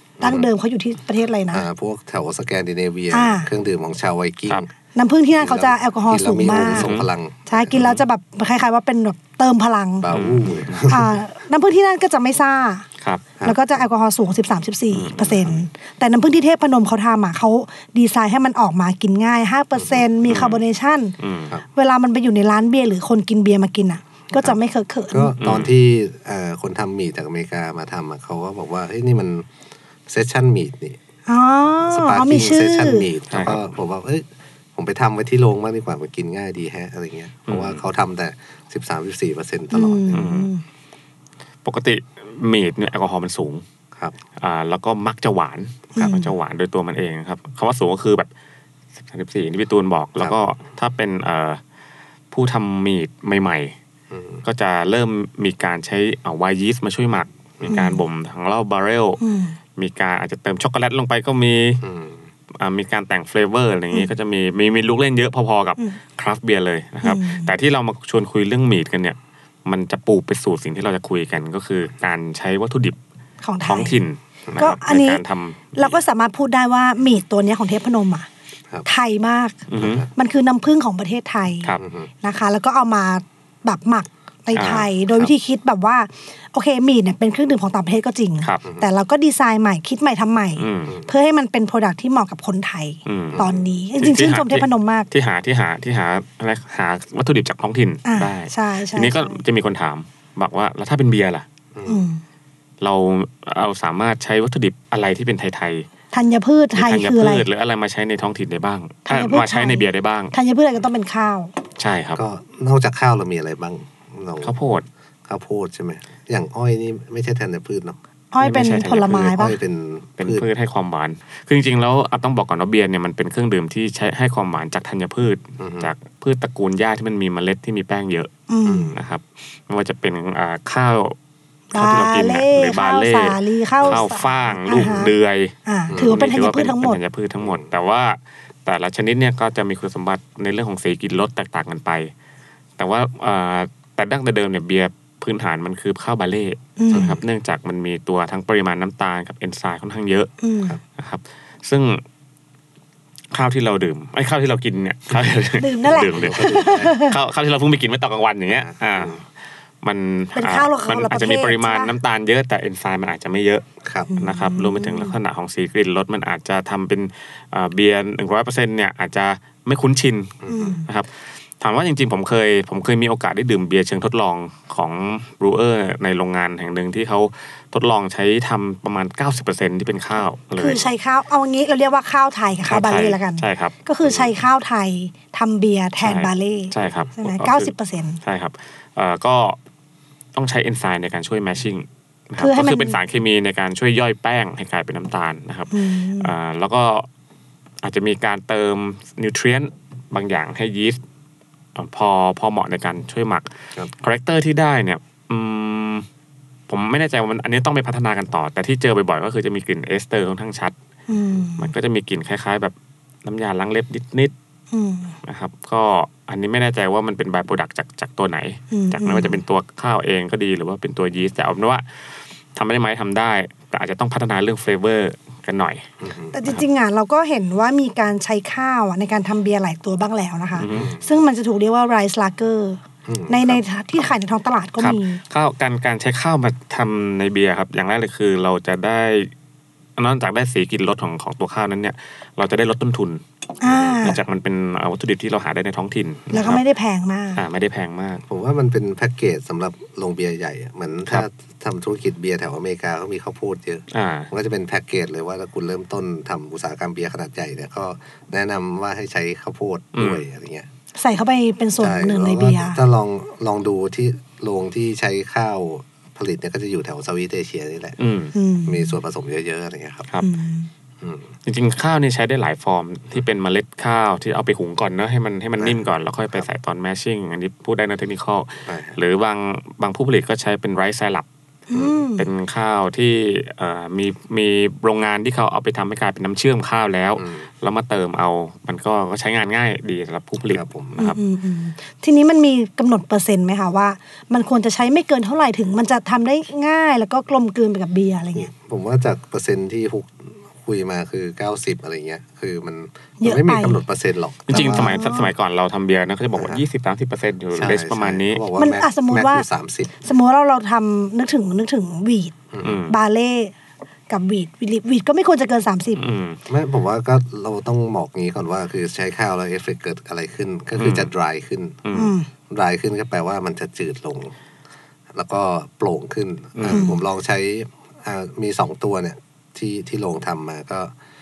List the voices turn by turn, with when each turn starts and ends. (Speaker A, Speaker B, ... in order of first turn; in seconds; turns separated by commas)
Speaker A: 0.2-0.5, Speaker B: 0.2-1.6, Speaker A: 1.5-4.7, Speaker B: 3.1-3.5, Speaker B: 4.9-6.9, Speaker A: 5.4-7.9, Speaker C: 6.5-7.1, Speaker B: 7.5-10.1, Speaker A: 10.0-11.2, Speaker C: 10.1-10.8, Speaker B: 10.9-12.8, Speaker B: 13.4-21.1, Speaker C: 14.9-15.5, Speaker A: 19.8-20.0, Speaker C: 20.3-20.6, Speaker C: 21.2-21.5, Speaker B: 21.7-25.3, Speaker A: 25.1-29.5, Speaker C: 25.4-25.7, Speaker A: 30.1-31.0, Speaker B: 31.3-33.1, Speaker A: 31.8-40.3, Speaker C: 33.3-33.6, Speaker C: 37.5-37.8, Speaker B: 39.7-40.6, Speaker C: 40.1-40.5, Speaker C: 41.6-43.6, Speaker C: 44.4-48.3, Speaker B: 45.9-46.3, Speaker C: 49.0-51.6, Speaker C: 52.3-53.7, Speaker A: 54.1-54.4, Speaker C: 54.4-59.2, Speaker B: 57.7-58.0, Speaker B: 59.2-59.5, Speaker C: 59.8-61.8, Speaker A: 61.8-62.2, Speaker C: 62.6-73.0, Speaker B: 67.0-67.5, Speaker B: 73.4-74.0, Speaker C: 73.7-76.0, Speaker B: 74.6-75.2, Speaker B: 75.7-78.3, Speaker B: 78.8-79.6, Speaker C: 79.7-80.0, Speaker A: 79.8-80.1, Speaker B: 80.2-95.1, Speaker A: 81.8-82.1, Speaker C: 84.5-85.3, Speaker C: 90.6-90.9, Speaker C: 93.0-93.5, Speaker A: 93.3-93.6, Speaker C: 94.0-101.4, Speaker B: 98.0-99.4, Speaker A: 101.7-102.0, Speaker B: 101.8-102.2, Speaker C: 102.8-105.8, Speaker B: 106.1-107.5, Speaker C: 106.7-110.3, Speaker B: 109.0-111.5, Speaker C: 111.8-112.2, Speaker A: 112.1-114.5, Speaker C: 114.4-114.8, Speaker A: 115.3-118.0, Speaker B: 118.3-119.5, Speaker C: 118.4-119.4, Speaker A: 119.2-120.5, Speaker C: 120.2-128.3, Speaker A: 125.6-125.9, Speaker B: 128.5-128.9, Speaker A: 128.7-129.0, Speaker C: 128.9-131.2, Speaker B: 131.7-135.1, Speaker C: 131.7-142.1, Speaker A: 134.7-135.0, Speaker B: 135.7-137.0, Speaker A: 135.9-136.2, Speaker A: 137.4-137.7, Speaker C: 142.8-150.3, Speaker B: 146.8-147.2, Speaker A: 146.9-147.2, Speaker B: 150.4-150.8, Speaker C: 150.9-152.0, Speaker C: 153.3-159.2, Speaker B: 155.6-157.1, Speaker A: 155.9-157.0, Speaker A: 158.6-159.2, Speaker C: 159.8-163.6, Speaker B: 160.3-161.9, Speaker A: 163.8-164.1, Speaker B: 164.1-165.1, Speaker C: 164.2-180.9, Speaker A: 170.4-170.8, Speaker B: 170.5-170.8, Speaker B: 180.6-188.2, Speaker C: 182.7-183.7, Speaker C: 186.0-187.7, Speaker C: 188.2-189.6, Speaker C: 190.3-197.1, Speaker B: 192.4-193.0, Speaker B: 195.7-196.3, Speaker C: 197.8-201.0, Speaker C: 201.7-206.1, Speaker C: 206.7-210.7, Speaker B: 211.1-211.7, Speaker C: 211.6-214.3, Speaker B: 214.7-215.1, Speaker C: 215.2-225.9, Speaker B: 218.7-219.4, Speaker A: 226.0-226.3, Speaker B: 226.3-235.2, Speaker C: 230.6-230.9, Speaker A: 230.7-231.1, Speaker A: 233.1-233.6, Speaker C: 234.8-239.3, Speaker C: 240.0-243.2, Speaker B: 243.6-244.2, Speaker A: 243.7-244.1, Speaker C: 243.9-246.6, Speaker B: 246.3-247.4, Speaker C: 247.3-248.2, Speaker A: 248.2-260.7, Speaker C: 253.9-254.3, Speaker C: 259.9-260.2, Speaker B: 261.0-262.8, Speaker A: 261.8-268.0, Speaker C: 268.0-268.3, Speaker B: 268.3-268.9, Speaker A: 268.6-270.1, Speaker B: 270.2-270.7, Speaker A: 271.0-271.3, Speaker C: 271.4-281.2, Speaker A: 278.7-279.0, Speaker B: 281.7-282.2, Speaker C: 282.2-291.2, Speaker A: 287.2-287.5, Speaker A: 290.5-291.0, Speaker B: 291.0-298.5, Speaker A: 298.3-305.0, Speaker B: 303.2-303.8, Speaker C: 304.5-308.4, Speaker B: 304.5-305.3, Speaker A: 306.3-306.6, Speaker A: 307.5-310.1, Speaker B: 308.6-309.4, Speaker B: 310.0-312.3, Speaker A: 312.5-312.8, Speaker C: 312.6-312.9, Speaker B: 312.9-313.5, Speaker B: 314.1-316.0, Speaker C: 315.9-316.4, Speaker A: 316.5-321.8, Speaker C: 320.8-321.1, Speaker C: 321.8-322.1, Speaker B: 321.9-322.3, Speaker A: 322.5-324.3, Speaker A: 325.1-330.9, Speaker C: 326.6-326.9, Speaker B: 326.7-327.0